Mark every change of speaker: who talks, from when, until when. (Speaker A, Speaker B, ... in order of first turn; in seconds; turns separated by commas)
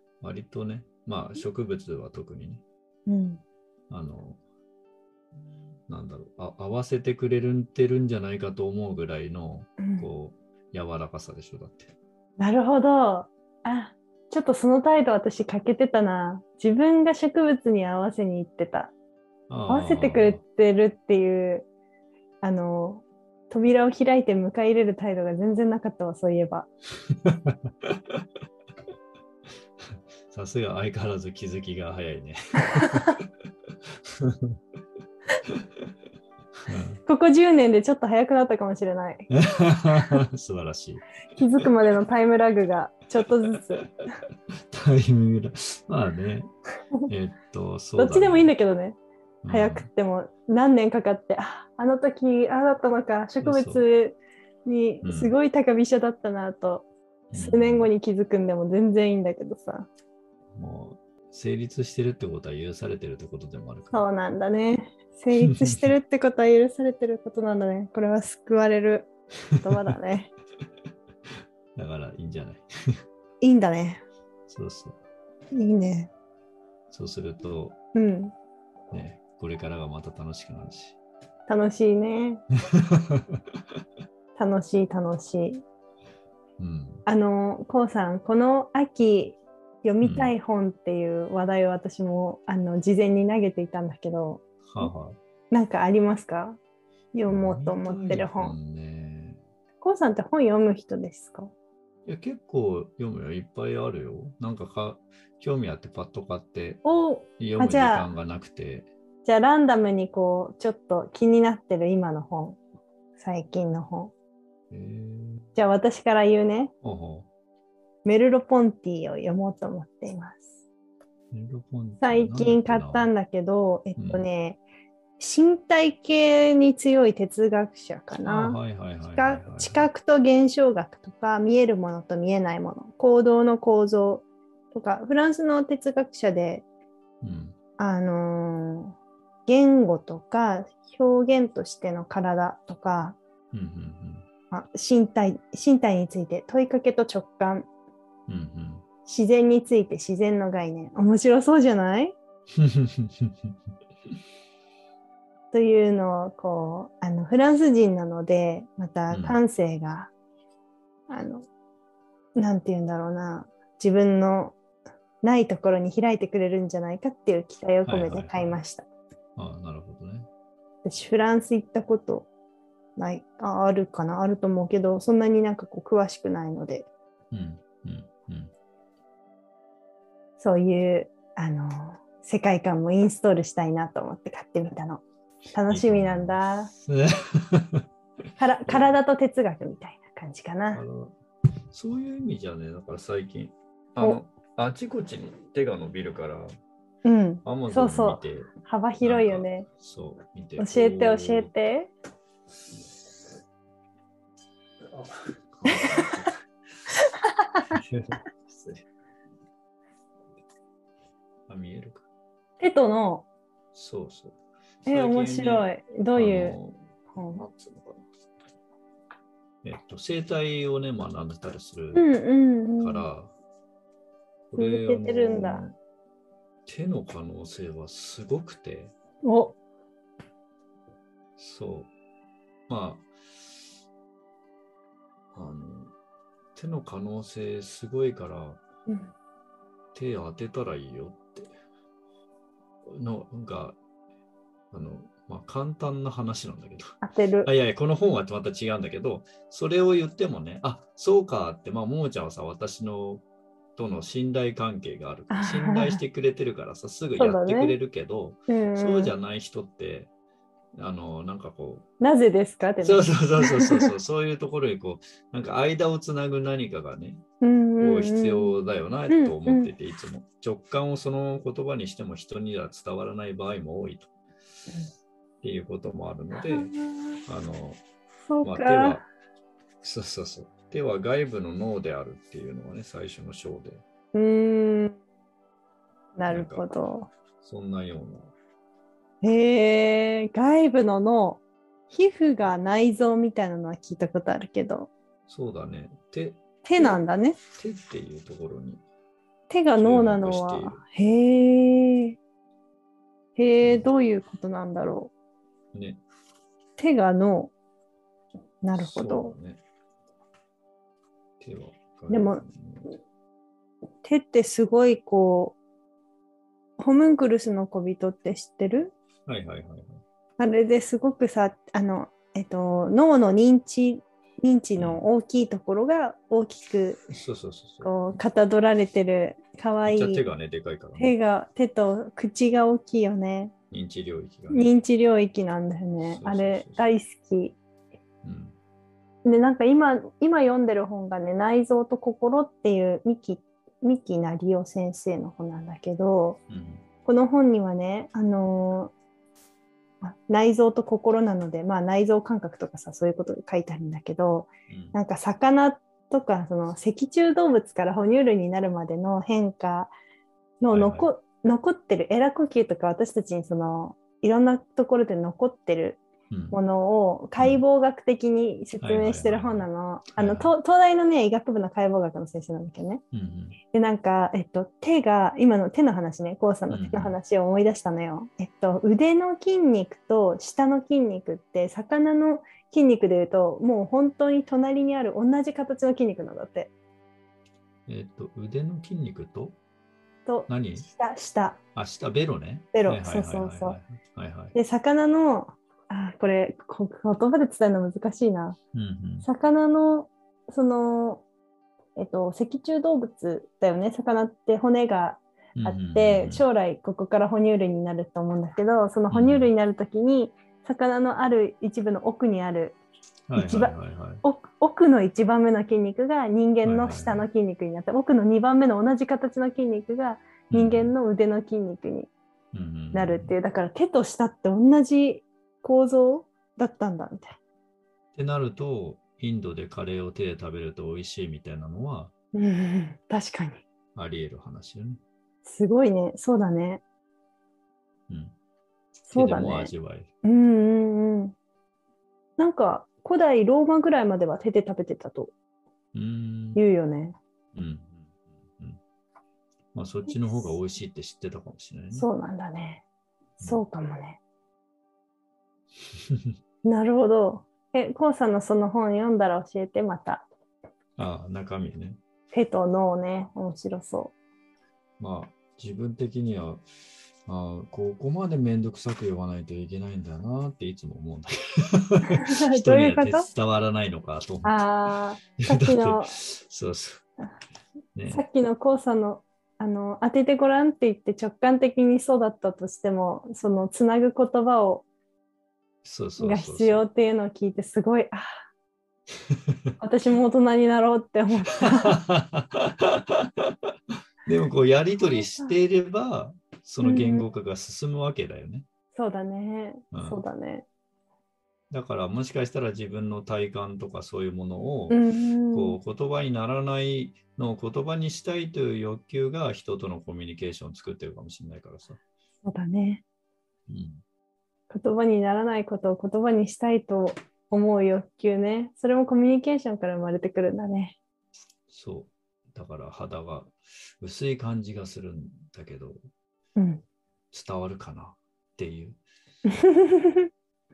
Speaker A: 0.2-2.6, Speaker B: 3.1-3.4, Speaker A: 3.9-4.4, Speaker A: 5.9-11.9, Speaker B: 9.8-10.1, Speaker B: 12.4-18.9, Speaker A: 19.5-20.4, Speaker B: 19.7-21.7, Speaker B: 22.4-26.7, Speaker A: 27.1-28.2, Speaker A: 30.3-33.3, Speaker A: 34.1-34.6, Speaker A: 36.7-37.0, Speaker B: 37.1-39.3, Speaker A: 39.3-41.1, Speaker B: 39.9-40.2, Speaker B: 41.4-44.0, Speaker A: 44.7-46.5, Speaker A: 47.1-48.5, Speaker B: 48.0-49.0, Speaker A: 49.4-49.9, Speaker B: 49.5-59.9, Speaker A: 53.4-53.8, Speaker A: 55.0-55.4, Speaker A: 57.3-57.9, Speaker A: 60.6-64.0, Speaker B: 63.9-70.3, Speaker A: 65.5-65.9, Speaker A: 71.8-72.7, Speaker B: 73.4-74.0, Speaker A: 74.5-75.0, Speaker B: 75.5-76.1, Speaker A: 76.9-77.8, Speaker B: 78.0-78.3, Speaker A: 78.9-81.0, Speaker B: 81.5-82.4, Speaker B: 84.4-85.6, Speaker A: 86.6-87.0, Speaker B: 87.1-94.9, Speaker A: 90.0-90.3, Speaker A: 94.7-95.2, Speaker B: 95.5-96.6, Speaker B: 97.1-98.6, Speaker A: 97.3-99.4, Speaker B: 99.8-101.5, Speaker A: 102.0-106.8, Speaker B: 106.8-108.1, Speaker A: 107.4-108.9, Speaker B: 109.2-112.6, Speaker B: 113.2-114.1, Speaker A: 114.7-115.5, Speaker B: 115.5-116.7, Speaker A: 116.8-117.3, Speaker B: 118.0-120.5, Speaker A: 121.3-123.1, Speaker B: 122.0-124.6, Speaker A: 124.0-124.2, Speaker B: 125.2-128.6, Speaker A: 128.2-129.9, Speaker B: 129.1-136.7, Speaker A: 137.2-137.6, Speaker B: 137.8-143.2, Speaker A: 143.5-144.3, Speaker B: 144.5-147.7, Speaker A: 148.3-148.8, Speaker B: 149.1-152.2, Speaker A: 152.6-153.5, Speaker B: 155.5-160.1, Speaker A: 159.1-159.4, Speaker B: 161.1-161.5, Speaker B: 162.4-164.6, Speaker B: 165.2-168.9, Speaker A: 167.8-168.6, Speaker A: 169.4-170.3, Speaker B: 170.8-172.3, Speaker B: 173.0-176.9, Speaker A: 177.3-178.5, Speaker B: 180.4-185.0, Speaker B: 185.5-186.7, Speaker A: 185.7-187.8, Speaker B: 188.4-190.8, Speaker A: 188.7-189.0, Speaker A: 190.7-191.2, Speaker A: 191.7-196.5, Speaker B: 197.0-199.7, Speaker A: 197.4-201.5, Speaker B: 200.6-201.9, Speaker A: 204.9-206.3, Speaker B: 205.7-206.1, Speaker A: 207.7-208.8, Speaker A: 211.5-212.1, Speaker B: 212.6-213.2, Speaker A: 213.7-218.0, Speaker B: 214.9-216.6, Speaker B: 217.1-217.4, Speaker A: 219.6-222.1, Speaker B: 221.9-223.1, Speaker A: 222.8-223.3, Speaker A: 224.5-225.7, Speaker B: 224.6-225.7, Speaker A: 226.7-228.9, Speaker B: 229.2-229.6, Speaker A: 231.4-231.9, Speaker A: 232.7-233.5, Speaker A: 235.3-235.9, Speaker A: 236.6-238.6, Speaker B: 238.9-239.1, Speaker A: 239.9-241.5, Speaker A: 242.9-243.8, Speaker A: 244.7-253.2, Speaker B: 247.0-247.5, Speaker A: 253.8-260.1, Speaker B: 255.3-256.0, Speaker B: 257.2-257.8, Speaker B: 258.5-259.1, Speaker A: 260.8-261.9, Speaker B: 262.0-263.9, Speaker A: 262.8-267.2, Speaker B: 267.4-268.6, Speaker A: 267.8-274.1, Speaker B: 269.1-269.7, Speaker A: 275.4-276.7, Speaker B: 276.5-277.2, Speaker A: 277.3-277.8, Speaker B: 278.3-279.1, Speaker A: 278.4-279.0, Speaker A: 279.8-283.8, Speaker B: 284.1-285.0, Speaker B: 286.1-287.1, Speaker A: 286.3-286.6, Speaker A: 287.4-288.3, Speaker B: 289.2-294.9, Speaker A: 295.3-297.0, Speaker B: 296.6-297.4, Speaker A: 297.6-298.8, Speaker B: 299.5-302.2, Speaker A: 299.8-300.8, Speaker B: 303.4-305.1, Speaker A: 303.6-303.9, Speaker A: 305.7-306.0, Speaker B: 306.8-307.5, Speaker B: 308.6-309.4, Speaker A: 308.7-309.6, Speaker A: 311.4-312.9, Speaker B: 312.1-312.4, Speaker B: 314.0-315.6, Speaker B: 316.8-318.9, Speaker A: 319.3-320.0, Speaker B: 320.4-327.0, Speaker A: 324.8-325.1, Speaker A: 327.1-328.2, Speaker B: 327.8-330.2, Speaker A: 329.9-331.1, Speaker B: 331.0-333.5, Speaker A: 333.7-334.7, Speaker B: 334.5-337.6, Speaker A: 336.0-336.8, Speaker A: 338.2-338.6, Speaker B: 339.2-346.4, Speaker A: 346.5-346.9, Speaker B: 347.1-348.9, Speaker B: 350.0-359.9, Speaker A: 354.7-355.0, Speaker B: 360.6-373.0, Speaker A: 360.7-361.1, Speaker A: 366.3-366.6, Speaker A: 367.4-367.6, Speaker A: 368.8-370.5, Speaker A: 373.1-373.6, Speaker B: 373.7-386.7, Speaker A: 376.7-377.2, Speaker A: 387.9-389.6, Speaker B: 390.3-391.6, Speaker A: 390.5-390.9, Speaker A: 391.8-394.6, Speaker B: 392.7-393.8, Speaker B: 394.5-398.6, Speaker A: 398.7-399.3, Speaker B: 399.2-401.2, Speaker B: 402.0-412.8, Speaker A: 405.6-406.4, Speaker A: 409.1-409.5, Speaker A: 413.3-414.2, Speaker B: 413.4-422.1, Speaker A: 416.6-417.2, Speaker A: 420.5-420.9, Speaker A: 422.5-423.4, Speaker B: 422.9-427.4, Speaker A: 428.1-432.1, Speaker B: 432.3-433.6, Speaker A: 433.9-435.0, Speaker B: 435.4-436.8, Speaker A: 438.1-438.4, Speaker B: 439.1-439.7, Speaker A: 439.1-440.1, Speaker B: 440.2-441.3, Speaker B: 442.4-445.3, Speaker A: 445.9-446.6, Speaker B: 446.6-447.2, Speaker A: 447.5-448.8, Speaker A: 449.7-452.1, Speaker B: 451.9-452.8, Speaker B: 453.4-454.2, Speaker B: 456.6-460.3, Speaker A: 461.0-462.0, Speaker B: 462.3-464.1, Speaker A: 465.0-466.6, Speaker A: 467.3-474.7, Speaker B: 472.2-473.3, Speaker B: 474.4-476.2, Speaker A: 475.4-477.0, Speaker A: 477.9-478.2, Speaker B: 478.1-484.9, Speaker A: 485.8-486.8, Speaker B: 486.2-488.2, Speaker B: 489.8-492.0, Speaker A: 491.9-493.5, Speaker A: 494.3-498.7, Speaker B: 496.8-497.2, Speaker B: 498.9-500.6, Speaker A: 499.9-500.2, Speaker A: 501.7-512.0, Speaker B: 504.9-505.8, Speaker B: 512.4-513.0, Speaker A: 513.7-514.0, Speaker B: 514.7-521.0, Speaker A: 521.7-526.0, Speaker B: 526.6-526.8, Speaker A: 527.3-529.0, Speaker B: 529.5-530.3